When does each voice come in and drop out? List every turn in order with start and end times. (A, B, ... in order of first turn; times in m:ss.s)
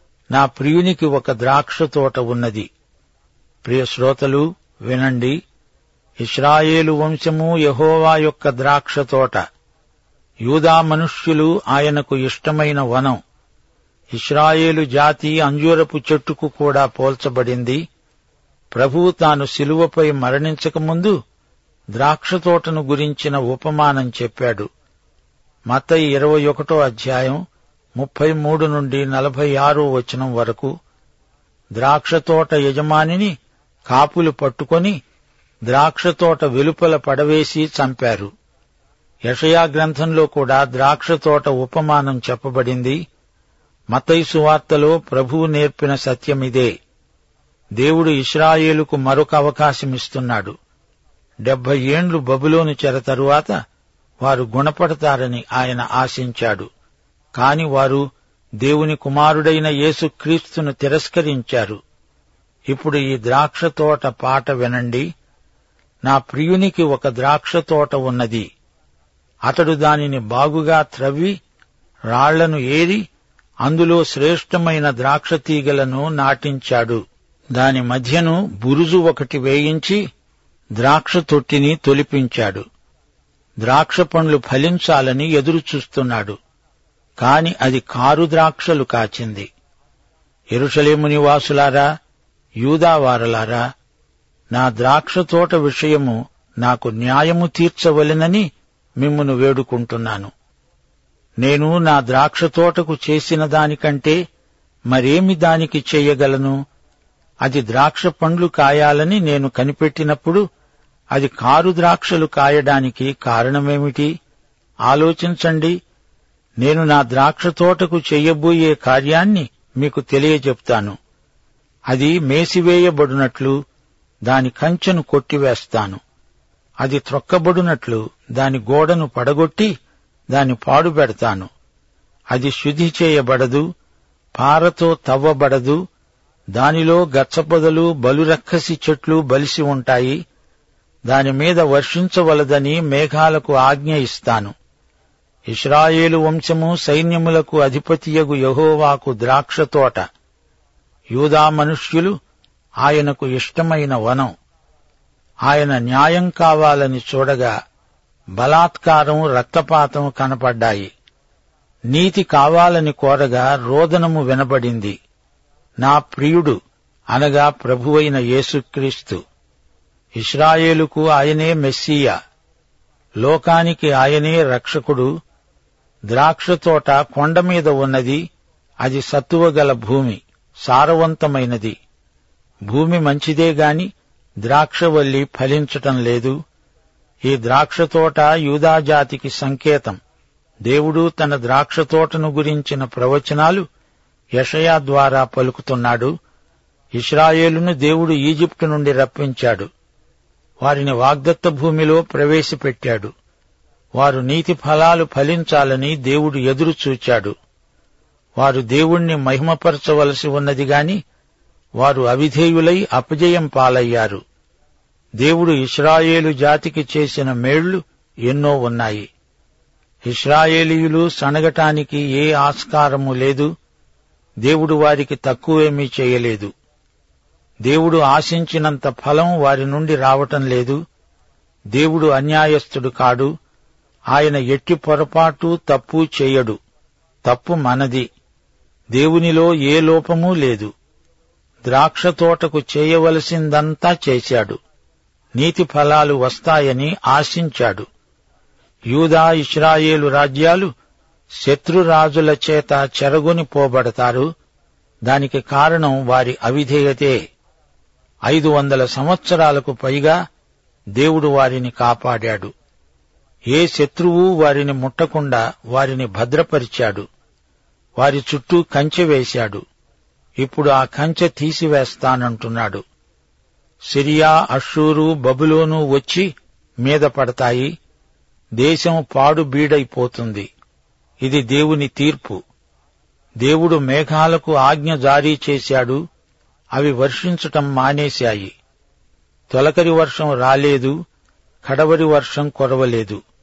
0:00.3-0:02.7 A
0:03.6-0:05.4 A
0:06.2-0:09.4 A
0:10.5-0:13.2 A
0:14.1-0:17.8 A
0:18.8-0:21.2 A
0:22.0-0:24.7 A
0:25.7-0:27.4 A
0:28.0-0:30.7 A
0:31.8-0:33.3 A
0:33.9-0:35.0 A
0:35.7-0:38.3 A
0:39.3-0:43.0 A
0:43.9-0:46.7 A
0:47.8-0:50.6 A
0:51.5-0:53.5 A
0:54.2-0:56.7 A
0:57.4-0:58.0 A
0:58.6-1:01.8 A
1:02.7-1:05.1 A
1:06.1-1:08.5 A
1:09.5-1:11.4 A
1:12.1-1:13.0 A
1:13.6-1:17.0 A
1:17.6-1:20.0 A
1:20.8-1:22.6 A
1:23.6-1:26.4 A
1:27.2-1:29.5 A
1:30.5-1:31.9 A
1:32.6-1:33.6 A
1:34.5-1:38.5 A
1:39.0-1:40.3 A
1:41.4-1:44.2 A
1:44.9-1:46.6 A
1:47.4-1:50.4 A
1:51.1-1:54.1 A
1:54.9-1:55.8 A
1:56.6-2:01.0 A
2:01.9-2:03.6 A
2:04.3-2:06.0 A
2:06.8-2:09.7 A
2:10.3-2:11.5 A
2:12.3-2:13.6 A
2:14.4-2:15.8 A
2:16.6-2:20.2 A
2:21.1-2:24.5 A
2:25.5-2:30.0 A
2:31.1-2:32.1 A
2:32.8-2:34.3 A
2:35.5-2:37.5 A
2:38.4-2:40.9 A
2:41.9-2:45.0 A
2:45.8-2:46.6 A
2:47.1-2:49.2 A
2:50.2-2:52.2 A
2:53.2-2:55.1 A
2:56.1-2:58.2 A
2:58.8-3:01.8 A
3:02.7-3:03.9 A
3:04.4-3:06.4 A
3:07.3-3:10.0 A
3:10.7-3:13.6 A
3:14.4-3:16.1 A
3:17.0-3:19.7 A
3:20.6-3:23.1 A
3:24.0-3:27.3 A
3:28.4-3:31.0 A
3:31.8-3:34.2 A
3:35.2-3:39.1 A
3:40.1-3:43.5 A
3:44.4-3:46.5 A
3:47.6-3:50.8 A
3:51.7-3:53.3 A
3:54.1-3:56.6 A
3:57.2-3:58.1 A
3:58.9-4:00.7 A
4:01.7-4:04.6 A
4:05.4-4:07.9 A
4:08.9-4:10.7 A
4:11.4-4:14.3 A
4:15.1-4:17.2 A
4:18.3-4:20.2 A
4:21.0-4:22.5 A
4:23.5-4:27.1 A
4:28.0-4:29.6 A
4:30.4-4:32.8 A
4:33.9-4:36.3 A
4:36.8-4:37.7 A
4:38.6-4:40.5 A
4:41.2-4:42.4 A
4:43.4-4:46.0 A
4:46.8-4:48.5 A
4:49.5-4:51.0 A
4:51.6-4:53.2 A